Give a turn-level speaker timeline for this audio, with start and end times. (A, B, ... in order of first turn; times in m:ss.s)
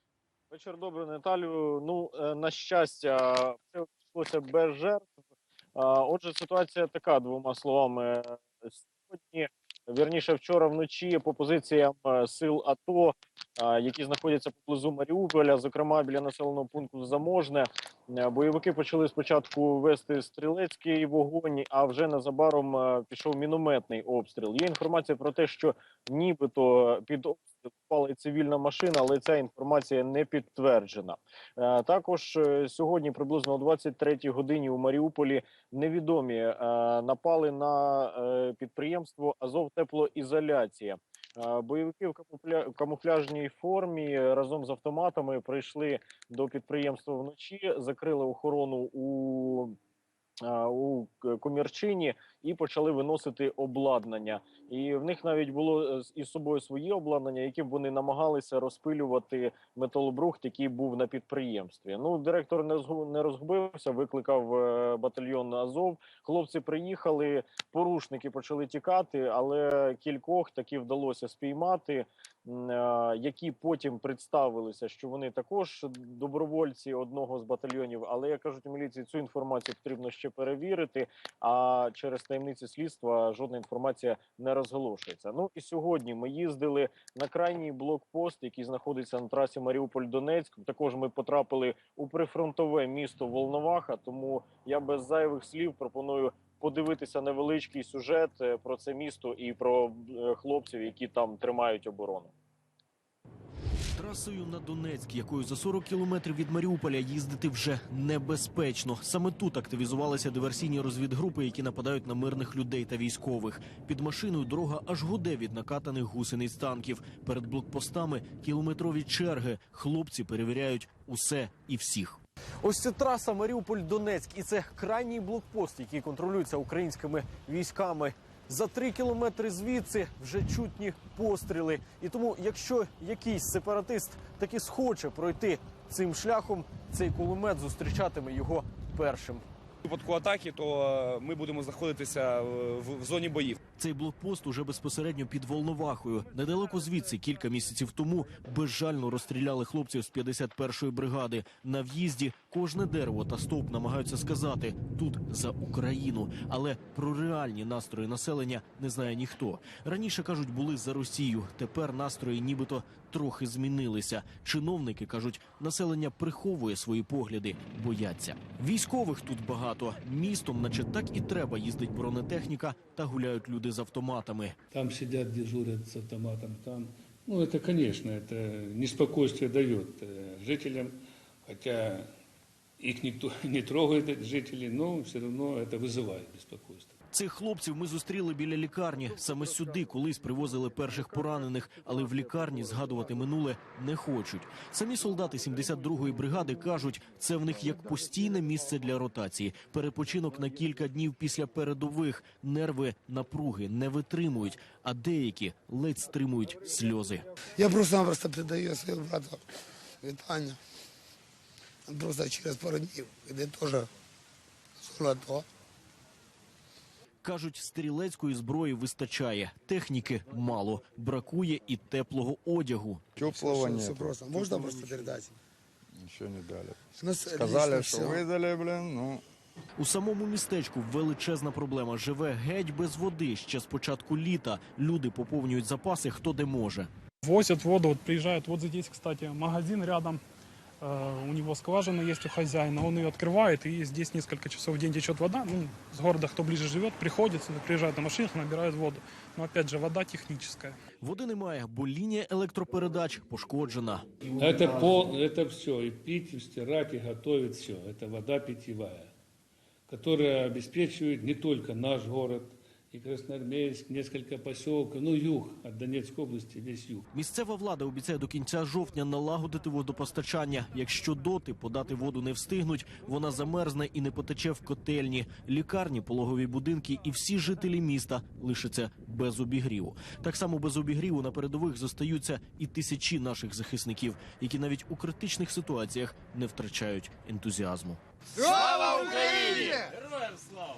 0:00.5-0:05.1 A
0:05.8-0:49.8 A
0:50.4-1:42.3 A
1:44.0-2:19.4 B
2:19.8-2:23.6 C
2:23.8-2:54.6 B
2:54.7-3:02.1 D
3:02.8-3:06.9 D
3:07.1-3:27.2 B
3:27.6-3:29.4 E
3:30.0-3:30.6 E
3:31.9-3:33.9 E
3:34.8-3:35.4 E
3:37.2-3:43.0 B
3:43.2-3:44.2 F
3:43.3-3:45.3 E
3:46.0-3:46.8 F
3:46.9-3:48.2 E
3:47.3-3:49.2 F
3:49.8-3:56.9 B
3:57.2-4:00.2 G
4:00.8-4:10.8 G
4:11.0-4:14.1 B
4:14.4-4:19.1 D
4:19.9-4:27.1 D
4:27.1-4:50.6 B